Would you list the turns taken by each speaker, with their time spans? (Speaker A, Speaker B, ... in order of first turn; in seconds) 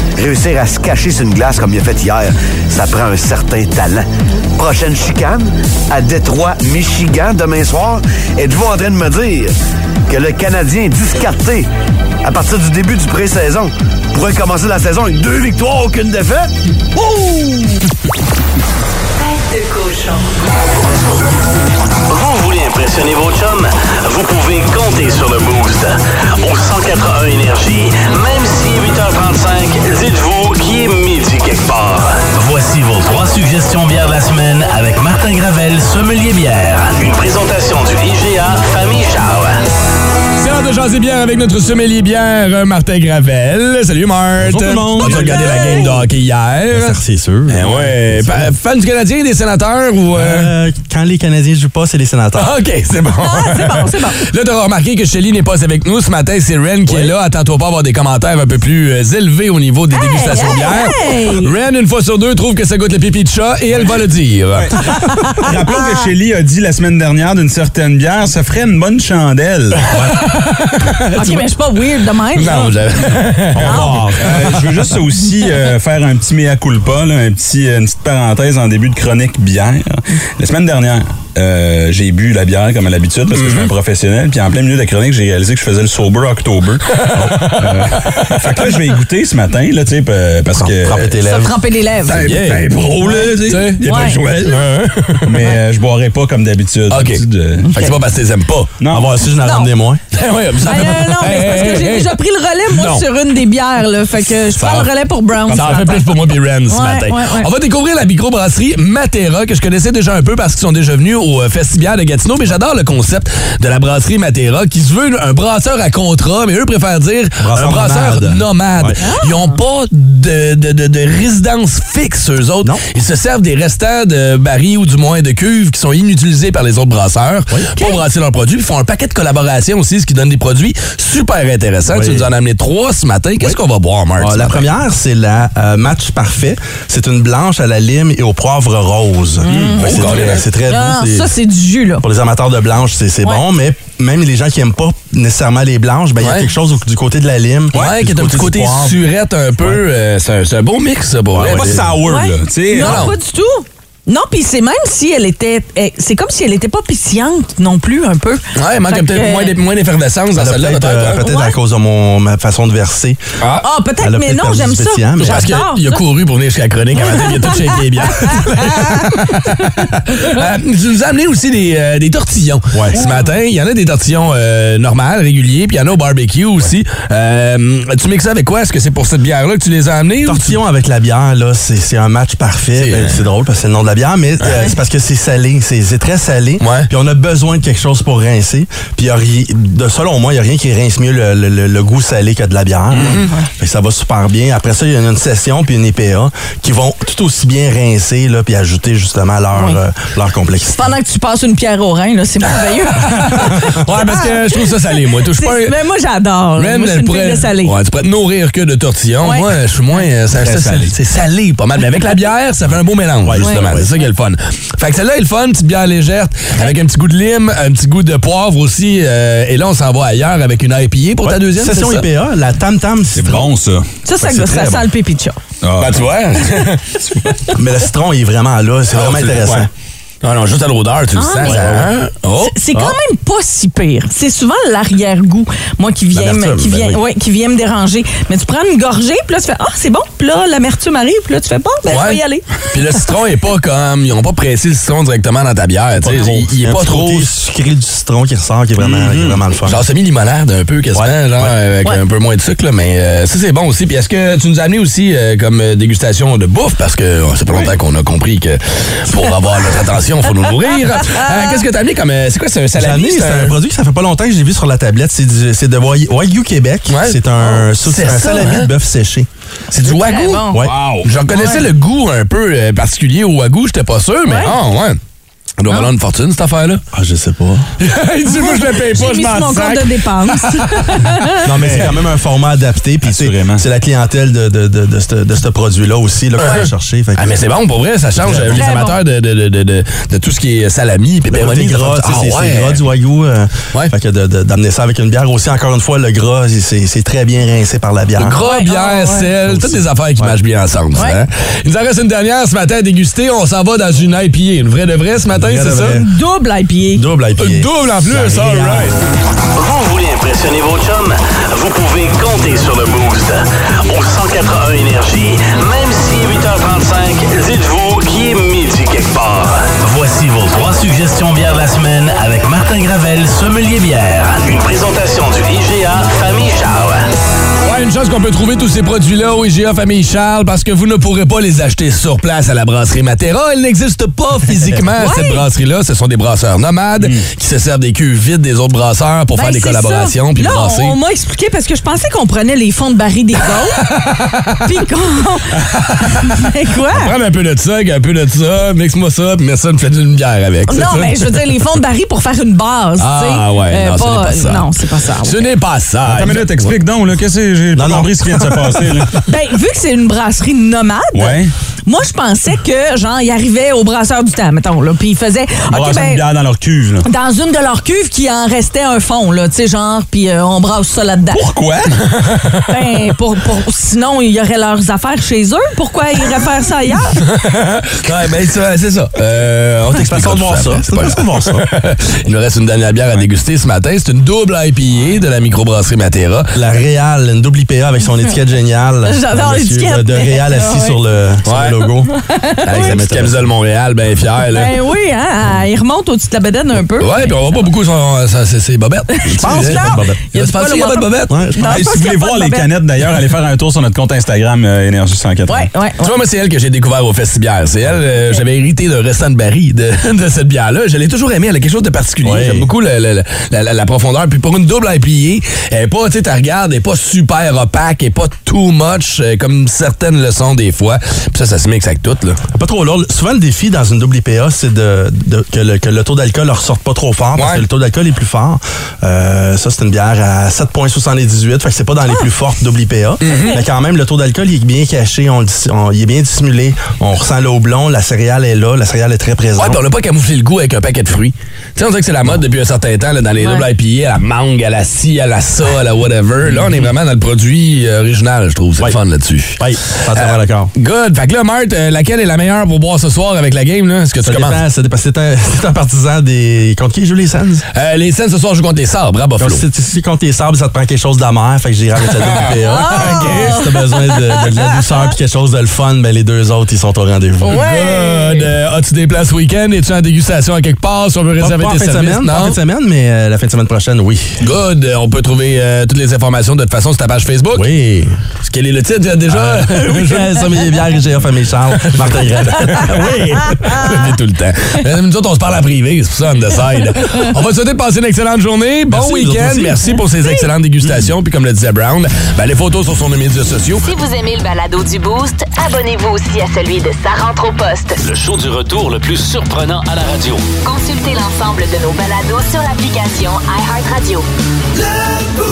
Speaker A: 0.2-9.5, 10.1-11.7, 12.2-16.5
Speaker B: 19.2-20.2, 493.8-498.0, 500.6-504.2
Speaker C: 22.1-39.6, 309.5-327.1, 498.0-500.4
Speaker D: 40.4-47.0, 47.5-50.5, 52.4-64.7, 69.9-74.8, 83.3-83.7, 86.9-88.4, 92.1-95.5, 96.9-97.2, 97.7-98.8, 100.1-103.0, 104.5-104.9, 105.5-134.6, 139.5-140.4, 146.2-146.5, 147.7-151.9, 152.8-153.1, 158.6-161.2, 163.4-163.7, 165.2-180.6, 182.8-183.2, 186.6-186.9, 193.0-193.3, 202.9-205.8, 206.6-222.1, 225.8-226.8, 228.9-229.7, 230.2-232.6, 241.9-247.3, 249.7-263.6, 266.9-268.7, 269.7-275.0, 275.6-276.8, 277.8-281.0, 281.5-281.9, 286.4-292.8, 298.2-306.0, 307.4-308.9, 327.6-340.9, 343.8-344.6, 345.6-346.3, 346.9-351.4, 353.0-356.8, 377.2-386.5, 391.4-391.8, 392.6-394.8, 397.0-401.4, 406.0-422.4, 427.4-427.6, 433.2-433.6, 439.6-454.6, 457.7-459.6, 462.2-463.6, 467.4-472.6, 474.4-477.7, 478.4-480.5, 481.9-493.9
Speaker E: 44.4-46.0, 46.7-48.5, 50.1-52.5, 56.9-57.1, 87.2-87.4, 90.6-91.6, 98.9-100.0, 117.4-119.0, 131.9-132.3, 134.2-141.3, 142.0-149.0, 151.3-151.9, 160.3-163.2, 164.0-165.5, 172.7-173.0, 180.2-200.9, 213.2-213.9, 221.2-223.5, 224.2-224.9, 227.5-229.7, 231.5-231.9, 236.1-237.0, 246.0-249.8, 250.9-251.5, 262.7-269.3, 270.5-270.9, 276.9-277.7, 281.4-287.2, 288.2-288.6, 291.2-298.4, 299.5-300.4, 305.3-306.1, 307.0-308.9, 357.7-359.0, 379.9-381.7, 386.5-392.1, 392.7-393.4, 399.4-400.2, 401.3-401.6, 412.2-412.7, 422.5-439.8, 446.5-446.9, 449.6-450.7, 454.2-457.6, 459.4-467.6, 471.4-474.4, 477.5-478.2, 479.3-483.8, 488.9-489.8
Speaker F: 44.5-45.1, 64.5-69.9, 73.5-91.2, 92.3-94.2, 95.2-97.7, 98.8-99.1, 151.3-153.1, 210.4-210.9, 223.1-223.9, 225.6-226.1, 248.8-249.4, 281.6-282.0, 283.0-283.6, 337.0-337.3, 356.0-359.1, 361.1-361.5, 365.7-367.1, 371.3-372.0, 401.6-405.7
Speaker G: 45.1-45.9, 53.2-54.2, 59.9-61.5, 65.1-65.5, 71.1-72.8, 73.6-73.9, 91.2-92.4, 93.8-94.2, 97.6-98.0, 99.3-99.7, 100.7-107.5, 119.0-119.6, 127.7-128.0, 139.4-142.0, 152.1-159.5, 161.2-161.6, 163.6-166.0, 167.0-169.6, 199.5-199.8, 200.7-207.7, 209.2-209.5, 213.4-213.7, 224.0-225.4, 231.2-231.7, 232.4-242.4, 270.1-270.6, 271.3-271.6, 274.2-274.6, 278.3-281.5, 288.5-288.9, 298.4-299.3, 305.9-307.0, 335.0-335.4, 339.3-344.0, 344.6-345.6, 346.1-347.1, 350.7-355.4, 359.2-366.2, 367.0-371.5, 372.7-377.2, 389.0-391.0, 392.1-393.0, 394.5-397.6, 399.2-402.7, 405.5-406.1, 433.2-433.6, 443.4-443.6, 462.6-465.1, 467.4-468.5